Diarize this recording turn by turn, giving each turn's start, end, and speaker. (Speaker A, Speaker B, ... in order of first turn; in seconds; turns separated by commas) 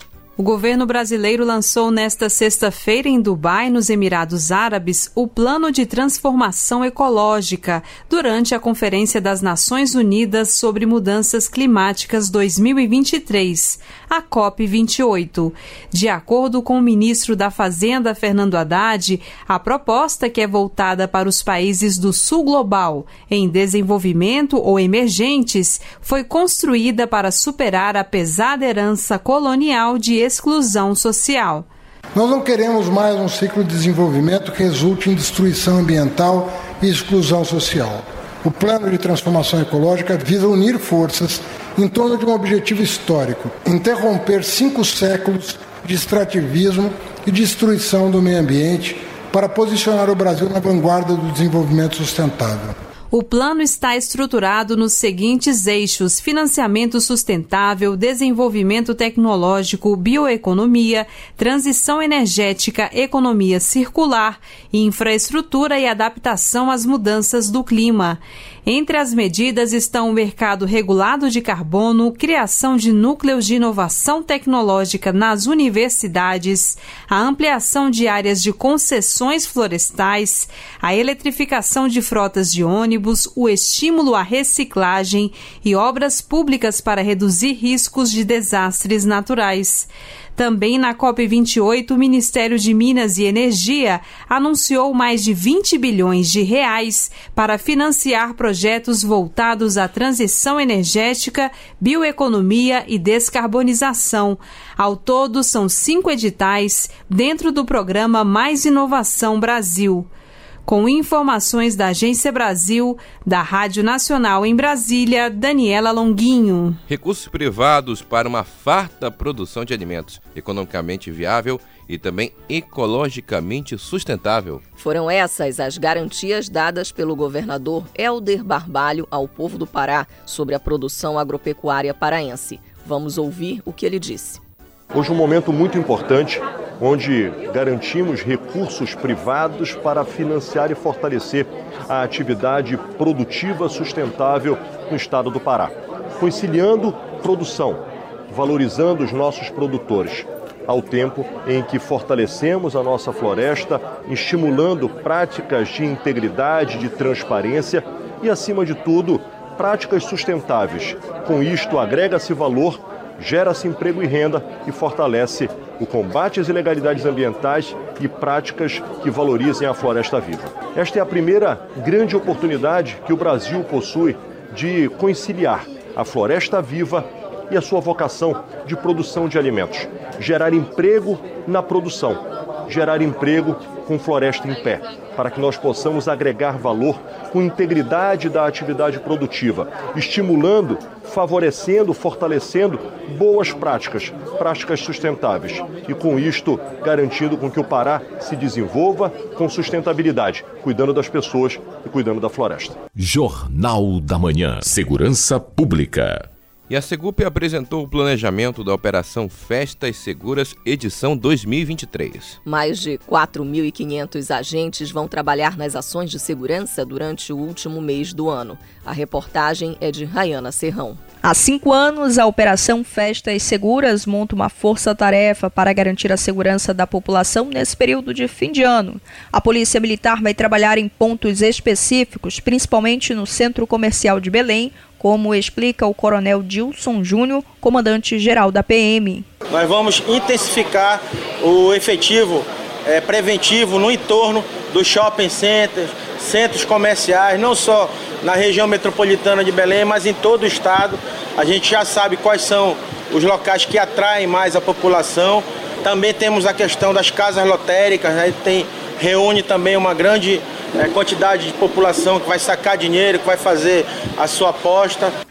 Speaker A: 0.4-31.6, Speaker B: 32.1-52.7, Speaker A: 53.1-110.1, Speaker A: 110.7-116.8, Speaker C: 116.9-124.6, Speaker D: 124.8-134.4, Speaker E: 134.9-147.8, Speaker E: 148.4-182.2, Speaker E: 182.8-202.7, Speaker F: 202.9-206.3, Speaker C: 206.7-212.4, Speaker D: 212.4-221.0, Speaker G: 221.2-239.2, Speaker H: 239.5-265.1